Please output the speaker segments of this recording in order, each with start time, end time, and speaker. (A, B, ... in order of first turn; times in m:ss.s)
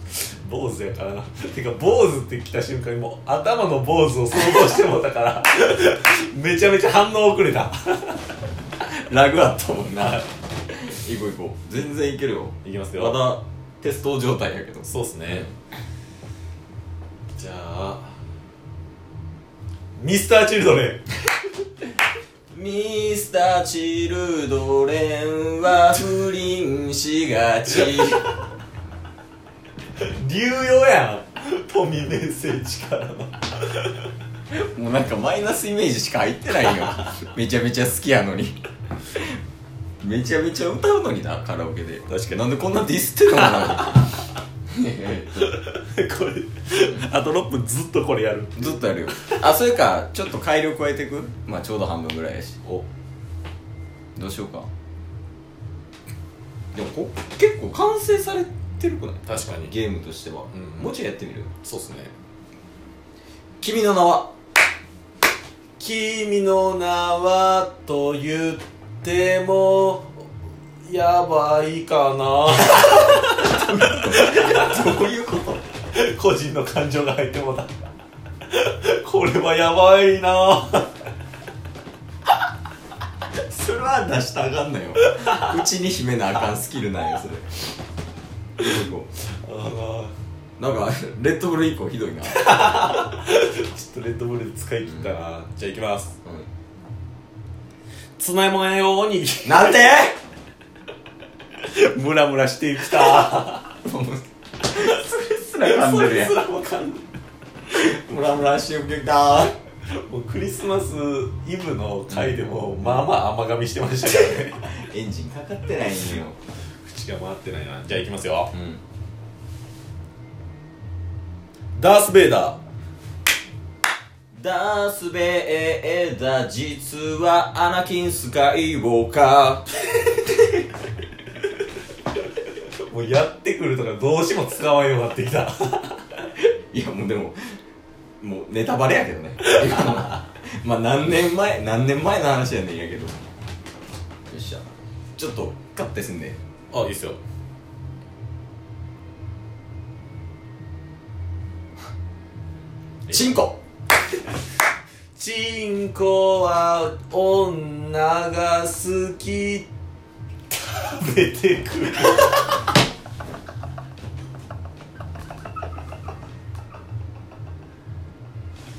0:00.1-0:08.2 A
0:08.8-0:15.5 B
0:12.6-0:13.2 A
0:14.9-0:15.5 A
0:17.4-0:18.1 A
0:20.0-0:21.0 A
0:22.5-0:28.3 B
0:30.0-0:33.4 A
0:34.5-0:38.6 B
0:40.0-0:44.2 B
0:42.1-0:42.4 A
0:44.7-0:45.5 B
0:45.4-0:49.4 A
0:48.6-0:52.6 B
0:54.2-0:54.7 B
0:56.7-1:01.5 B
0:59.3-0:59.7 A
1:00.5-1:00.9 A
1:01.6-1:02.1 A
1:03.6-1:04.3 B
1:05.8-1:10.2 A
1:10.8-1:14.9 A
1:13.4-1:15.6 B
1:15.9-1:17.7 A
1:18.5-1:20.9 A
1:23.4-1:27.8 B
1:25.1-1:25.4 A
1:28.6-1:29.1 B
1:29.2-1:30.2 A
1:30.6-1:32.5 B
1:32.3-1:36.1 A
1:38.2-1:39.8 A
1:39.4-1:40.2 B
1:41.7-1:43.7 A
1:43.8-1:46.4 B
1:45.6-1:47.0 A
1:47.7-1:49.6 B
1:49.9-1:54.6 A
1:52.1-1:53.0 B
1:54.5-1:56.4 B
1:56.8-1:58.5 A
1:58.5-1:58.8 B
2:01.8-2:02.6 A
2:04.3-2:09.7 B
2:12.8-2:16.0 A
2:16.7-2:17.4 B
2:18.2-2:23.2 B
2:24.3-2:24.6 B
2:25.2-2:26.4 B
2:26.7-2:27.2 A
2:33.1-2:33.6 B
2:35.2-2:39.7 A
2:40.7-2:42.4 A